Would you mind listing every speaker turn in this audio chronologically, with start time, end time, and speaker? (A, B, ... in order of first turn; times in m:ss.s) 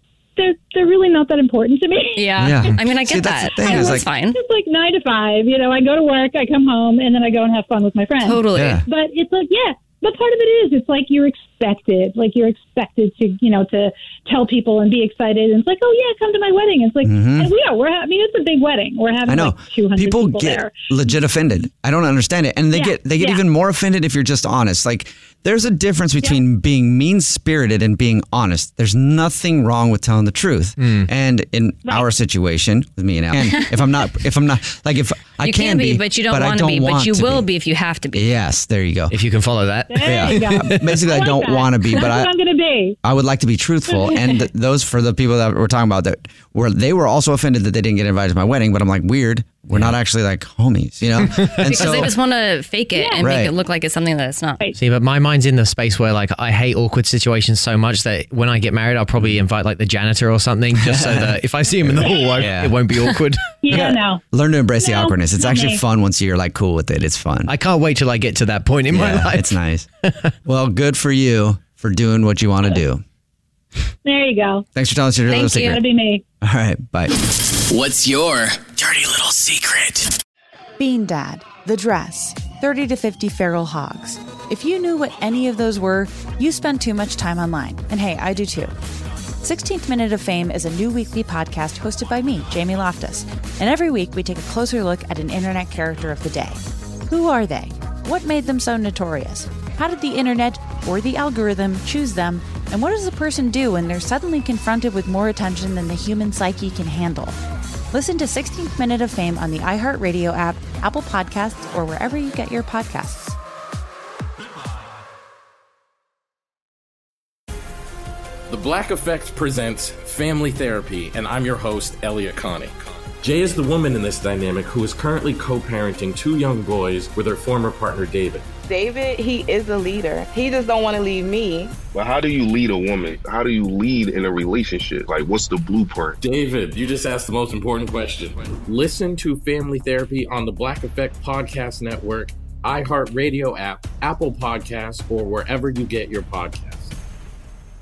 0:00.4-0:02.3 A
0:02.2-0:04.4 B
0:02.4-0:04.1 C
0:03.6-0:20.7 A
0:08.2-0:08.8 B
0:08.5-0:08.8 C
0:17.0-0:17.5 C
0:19.3-0:37.5 C
0:22.7-0:23.4 A
0:30.8-0:31.1 D
0:35.4-0:38.3 B
0:38.1-0:39.1 C
0:39.1-0:41.0 D
0:39.9-0:40.6 A
0:40.0-0:42.3 C
0:41.1-0:43.0 A
0:43.0-0:52.1 C
0:43.9-0:44.4 A
0:49.7-0:50.0 D
0:51.7-0:54.7 B
0:51.7-0:52.0 D
0:53.0-0:53.3 A
0:53.2-0:53.6 C
0:54.8-1:03.8 D
0:59.2-0:59.4 C
1:00.8-1:02.8 C
1:03.6-1:04.2 A
1:03.7-1:07.5 C
1:04.8-1:05.8 A
1:07.5-1:09.6 D
1:08.9-1:09.9 C
1:10.5-1:13.0 C
1:14.0-1:14.6 A
1:14.8-1:15.8 C
1:15.3-1:15.8 B
1:15.8-1:16.2 A
1:16.4-1:17.1 C
1:17.6-1:20.1 E
1:20.8-1:28.7 F
1:29.4-1:47.4 F
1:47.9-1:53.4 F
1:58.5-2:08.5 G
2:08.7-2:11.7 H
2:11.9-2:16.2 I
2:16.2-2:26.9 G